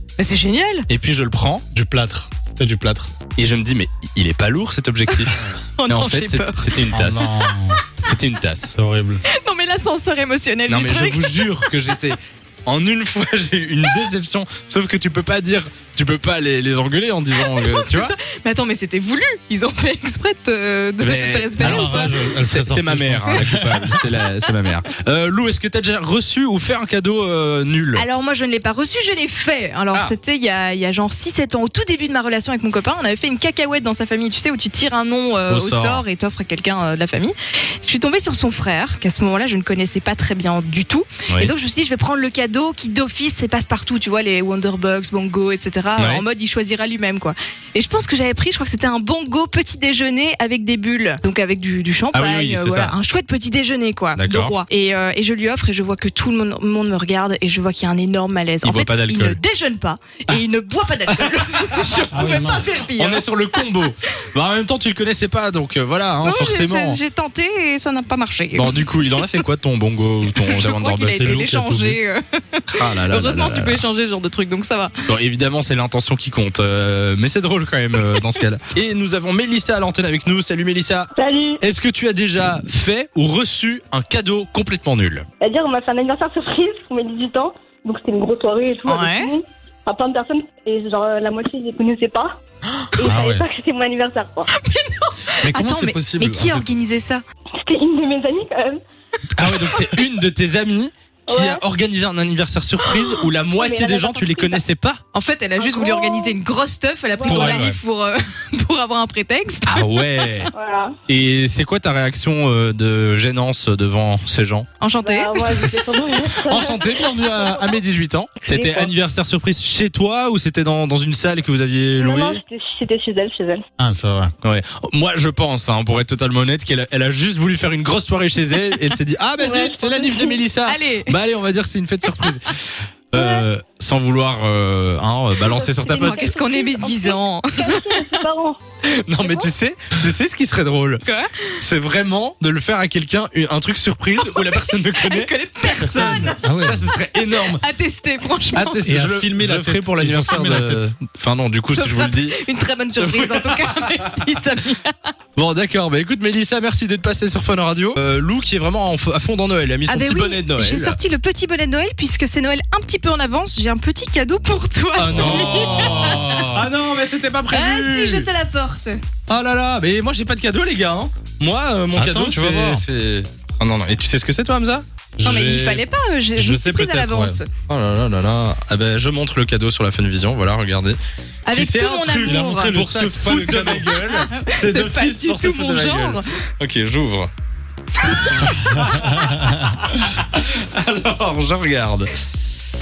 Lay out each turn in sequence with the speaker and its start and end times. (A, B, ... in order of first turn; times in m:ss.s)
0:00.2-0:00.8 A
0:00.9-0:01.6 B
0:01.7-0:03.1 C
0:03.4-0:07.3 B
0:05.2-0:06.7 A
0:06.9-0:07.8 C
0:08.0-0:08.7 B
0:08.7-0:09.2 C
0:09.3-0:11.9 A
0:10.7-0:18.1 B
0:17.3-0:22.3 A
0:21.0-0:28.1 B
0:21.6-0:24.0 C
0:27.9-1:03.7 A
0:35.5-0:36.0 B
0:46.0-0:46.2 B
0:52.1-0:52.9 B
0:54.2-0:54.6 B
0:58.6-0:59.4 B
1:01.1-1:02.1 B
1:02.1-1:02.6 C
1:02.9-1:07.0 B
1:06.2-1:09.4 A
1:08.5-1:11.5 B
1:10.4-1:14.9 A
1:11.0-1:12.0 C
1:12.8-1:13.8 B
1:15.1-1:25.2 B
1:21.2-1:21.6 D
1:25.4-1:32.4 D
1:28.8-1:29.3 A
1:33.0-1:34.5 D
1:33.0-1:33.4 C
1:34.6-1:37.2 A
1:35.4-1:36.7 C
1:37.6-1:38.8 D
1:39.4-1:45.0 B
1:41.3-1:41.6 D
1:43.1-1:44.6 D
1:45.1-1:50.5 A
1:45.6-1:46.4 D
1:47.1-1:47.4 D
1:47.2-1:47.8 B
1:49.7-1:50.5 B
1:50.5-1:51.0 D
1:51.1-1:54.7 B
1:54.8-1:55.7 A
1:55.0-1:57.7 D
1:56.4-2:02.4 B
1:58.4-1:58.9 D
2:02.0-2:03.6 D
2:03.8-2:04.3 C
2:04.4-2:16.3 B
2:09.4-2:10.4 D
2:10.6-2:11.1 A
2:12.1-2:12.5 A
2:13.2-2:13.4 D
2:15.4-2:18.6 D
2:15.9-2:18.2 A
2:18.8-2:21.0 B
2:19.2-2:19.5 D
2:21.0-2:21.6 A
2:21.6-2:27.6 B
2:24.1-2:26.4 A
2:25.8-2:26.9 C
2:27.2-2:28.8 A
2:28.5-2:32.4 B
2:28.8-2:30.9 C
2:31.7-2:35.1 A
2:33.0-2:34.0 B
2:35.4-2:41.0 B
2:39.9-2:46.5 A
2:45.0-2:48.3 B
2:45.1-2:46.7 C
2:47.5-2:49.0 A
2:49.3-2:54.8 B
2:51.9-2:52.8 C
2:55.2-2:55.8 C
2:55.2-2:57.5 A
2:56.4-2:57.4 C
2:57.7-3:01.0 B
3:01.4-3:02.8 A
3:01.5-3:07.3 B
3:02.2-3:04.0 C
3:04.2-3:06.2 A
3:08.1-3:09.1 A
3:08.2-3:09.3 B
3:08.8-3:09.4 C
3:09.9-3:12.1 B